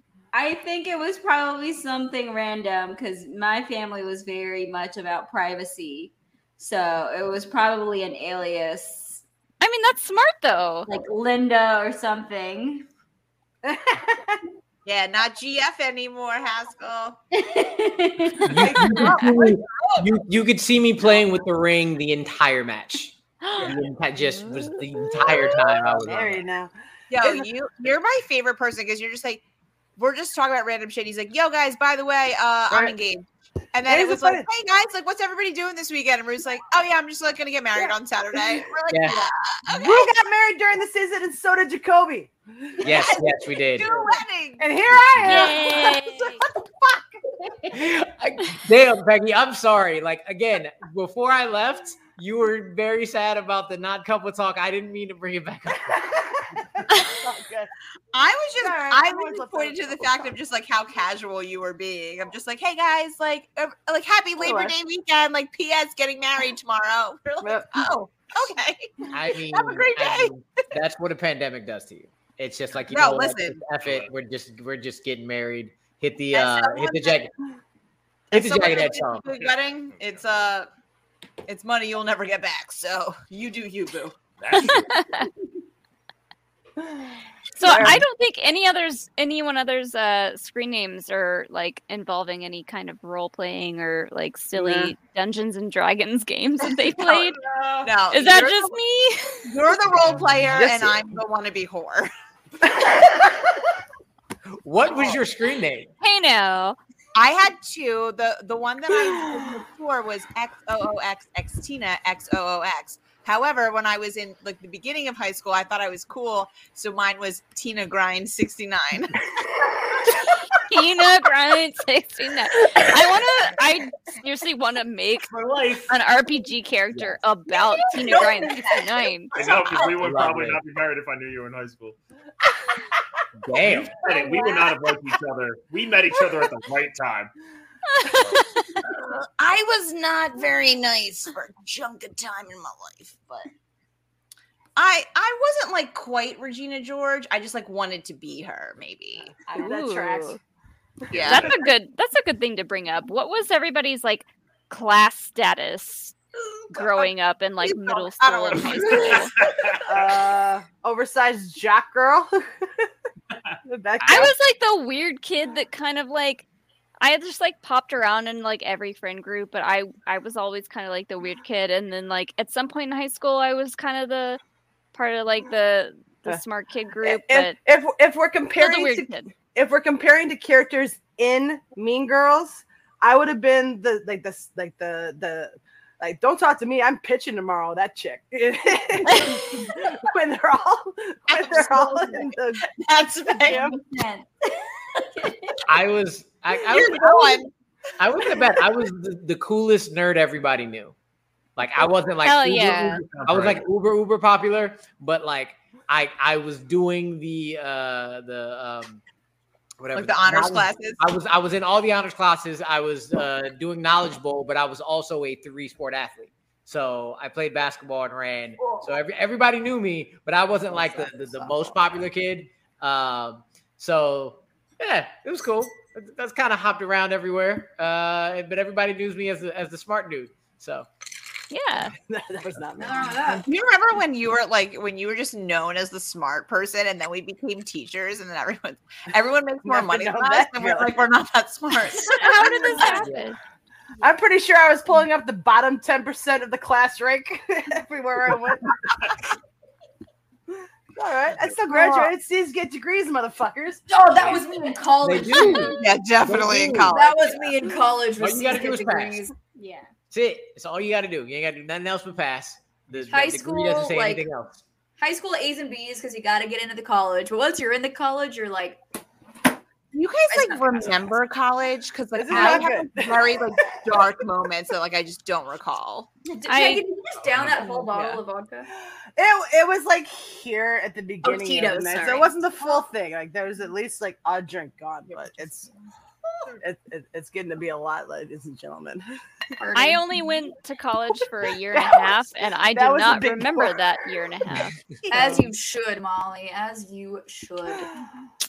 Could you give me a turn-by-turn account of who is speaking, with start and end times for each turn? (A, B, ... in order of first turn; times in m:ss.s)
0:00.3-0:09.2 A
0:09.6-0:10.9 B
0:10.8-0:12.9 A
0:14.8-0:17.2 C
0:17.3-0:18.5 A
0:18.4-0:26.4 D
0:18.6-0:19.2 E
0:18.6-0:20.2 C
0:23.4-0:23.7 B
0:25.5-0:27.5 E
0:27.1-0:29.4 C
0:30.0-0:40.2 C
0:32.7-0:33.0 E
0:33.8-0:34.5 E
0:37.8-0:38.6 E
0:38.9-0:39.3 D
0:39.7-0:43.1 E
0:42.8-0:43.9 D
0:42.8-0:44.7 C
0:43.8-0:47.0 E
0:44.9-0:45.3 D
0:45.2-0:46.4 B
0:47.7-0:56.3 D
0:55.9-0:57.7 E
0:58.1-1:10.3 C
0:58.6-1:00.4 E
1:04.4-1:04.7 E
1:07.4-1:07.8 E
1:09.1-1:17.3 D
1:12.9-1:13.6 C
1:13.7-1:14.1 F
1:16.3-1:17.3 C
1:18.3-1:20.7 C
1:18.3-1:19.3 D
1:19.4-1:20.3 F
1:21.4-1:24.2 C
1:24.4-1:25.0 F
1:24.6-1:25.3 B
1:27.6-1:37.4 B
1:27.6-1:28.0 E
1:34.6-1:34.9 E
1:37.5-1:37.8 F
1:37.8-1:38.8 C
1:38.1-1:39.4 B
1:39.4-1:42.1 C
1:40.5-1:41.1 E
1:42.8-1:43.2 E
1:44.6-1:45.9 D
1:46.0-1:46.8 B
1:47.1-1:59.2 C
1:48.9-1:49.5 E
2:00.6-2:05.3 B
2:05.3-2:06.0 F
2:05.9-2:09.3 B
2:07.5-2:10.0 C
2:09.3-2:12.0 F
2:09.8-2:10.6 D
2:13.4-2:14.0 D
2:13.6-2:17.3 F
2:14.1-2:14.8 C
2:18.0-2:18.3 B
2:18.8-2:23.4 C
2:24.8-2:29.4 C
2:29.5-2:30.4 E
2:29.6-2:30.4 B
2:31.0-2:31.6 E
2:31.1-2:31.6 C
2:31.2-2:36.1 B
2:36.7-2:39.3 B
2:36.7-2:39.5 C
2:38.8-2:39.9 F
2:39.9-2:42.9 E
2:43.6-2:44.3 E
2:44.0-2:46.4 B
2:47.0-2:54.4 B
2:54.9-2:57.6 B
2:57.0-3:12.6 E
2:58.6-2:59.3 B
3:11.3-3:13.7 C
3:13.3-3:13.8 E
3:13.5-3:14.3 A
3:14.9-3:15.6 A
3:15.7-3:17.4 D
3:16.5-3:17.5 C
3:18.0-3:20.9 D
3:21.6-3:29.0 D
3:22.2-3:23.1 B
3:29.8-3:50.9 D
3:29.9-3:31.0 C
3:40.9-3:41.4 G
3:51.5-3:51.9 B
3:52.1-3:53.4 E
3:52.8-3:53.5 G
3:53.3-4:02.7 C
3:59.6-4:01.0 E
4:02.2-4:03.4 B
4:02.4-4:03.2 E
4:04.0-4:08.7 E
4:10.9-4:13.8 E
4:13.9-4:15.8 G
4:15.0-4:17.0 D
4:15.7-4:17.5 C
4:16.9-4:19.3 G
4:18.2-4:19.2 D
4:19.6-4:19.9 A
4:20.1-4:24.6 D
4:23.1-4:24.3 G
4:25.0-4:28.8 G
4:29.9-4:36.1 C
4:30.3-4:30.9 G
4:32.1-4:34.1 E
4:32.3-4:32.7 G
4:36.3-4:38.7 G
4:36.5-4:36.8 B
4:37.6-4:38.2 E
4:39.2-4:45.7 E
4:41.2-4:42.8 G
4:46.6-4:49.0 E
4:49.6-4:50.0 G
4:49.7-4:54.8 B
4:51.7-4:54.0 E
4:55.1-4:55.5 E
4:55.1-4:58.1 G